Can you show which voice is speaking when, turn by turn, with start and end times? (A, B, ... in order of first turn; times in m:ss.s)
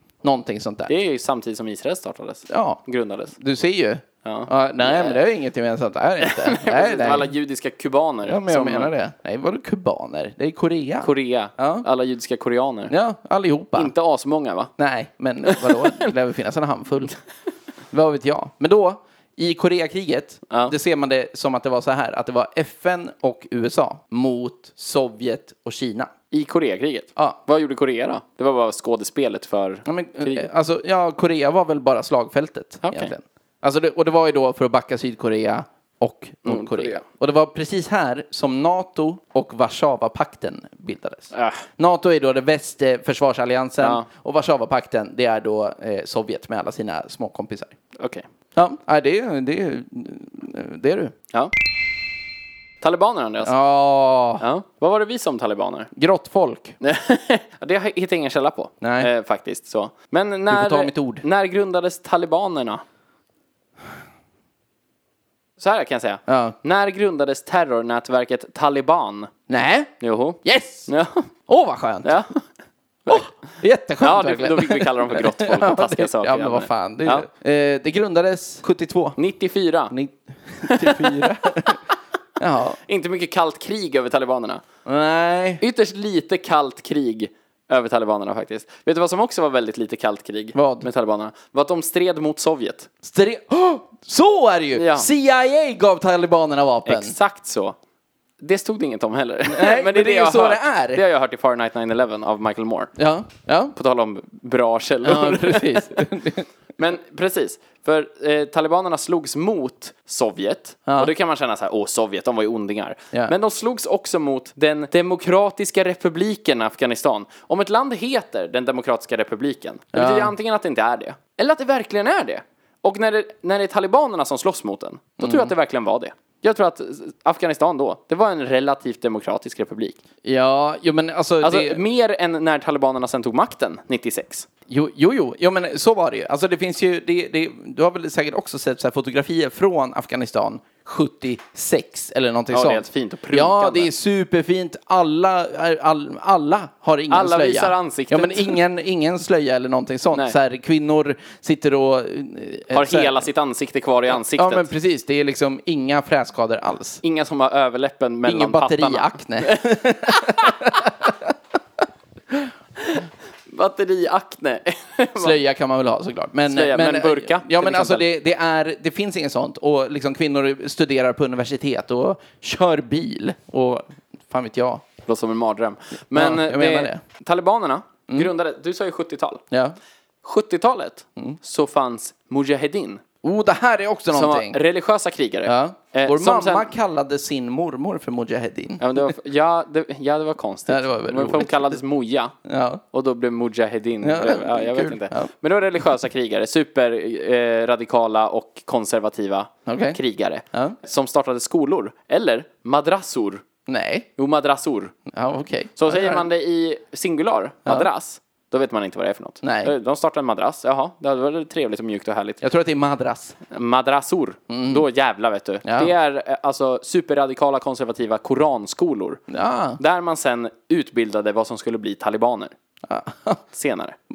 0:00.2-0:00.9 A
0:00.9-0:03.3 B
0:02.5-0:02.8 A
0:03.3-0:07.3 A
0:04.2-0:05.2 B
0:06.2-0:08.9 B
0:08.2-0:11.8 A
0:11.0-0:12.9 B
0:12.9-0:13.9 A
0:13.7-0:14.7 B
0:14.8-0:17.1 A
0:15.4-0:16.1 B
0:17.9-0:26.1 A
0:20.5-0:20.7 B
0:26.3-0:30.5 B
0:29.8-0:47.7 A
0:32.8-0:33.1 B
0:36.4-0:37.0 B
0:41.3-0:41.6 B
0:43.8-0:44.0 B
0:48.0-0:48.2 B
0:48.5-0:51.1 A
0:52.8-0:53.5 B
0:53.4-0:54.4 A
0:54.4-0:55.9 B
0:55.9-0:56.7 A
0:56.8-1:02.8 B
0:58.8-0:59.1 A
1:00.5-1:01.2 A
1:05.6-1:09.3 B
1:06.3-1:06.6 A
1:09.5-1:10.9 A
1:10.0-1:11.3 B
1:11.5-1:12.2 A
1:12.0-1:12.4 B
1:13.0-1:13.3 B
1:13.1-1:19.2 A
1:14.0-1:17.3 B
1:19.2-1:19.9 B
1:19.9-1:21.8 A
1:20.6-1:21.8 B
1:22.4-1:22.8 A
1:22.8-1:24.6 B
1:24.8-1:25.6 A
1:25.6-1:32.9 B
1:30.5-1:30.9 A
1:33.0-1:37.1 A
1:34.7-1:35.1 B
1:36.8-1:37.8 B
1:38.4-1:42.9 B
1:39.5-1:41.0 A
1:43.0-1:43.7 A
1:43.7-1:46.1 B
1:45.0-1:46.4 A
1:46.8-2:10.0 B
1:50.8-1:51.1 A
1:59.9-2:00.3 A
2:05.2-2:05.5 A
2:10.2-2:11.8 A
2:11.4-2:14.5 B
2:14.7-2:33.2 A
2:22.5-2:23.9 B
2:27.1-2:28.6 B
2:32.7-2:34.7 B
2:34.1-2:37.0 A
2:37.0-2:40.7 B
2:38.2-2:41.3 A
2:43.5-2:45.4 B
2:45.2-2:54.8 A
2:46.5-2:48.0 B
2:55.0-2:59.4 B
2:56.1-2:57.0 A
2:59.5-2:59.8 A
3:00.2-3:03.0 B
3:03.2-3:04.6 A
3:04.1-3:06.7 B
3:05.4-3:09.1 A
3:08.8-3:12.3 B
3:10.7-3:11.8 A
3:12.4-3:12.8 A
3:12.9-3:23.4 B
3:14.0-3:15.3 A
3:19.6-3:20.0 A
3:23.7-3:24.1 A
3:24.2-3:24.9 B
3:25.1-3:26.2 A
3:25.8-3:32.4 B
3:29.4-3:29.7 A
3:32.4-3:33.4 A
3:33.5-3:39.2 B
3:34.5-3:34.8 A
3:35.6-3:35.9 A
3:39.3-3:39.8 A
3:39.8-3:42.5 B
3:42.8-3:43.4 A
3:43.5-3:44.0 B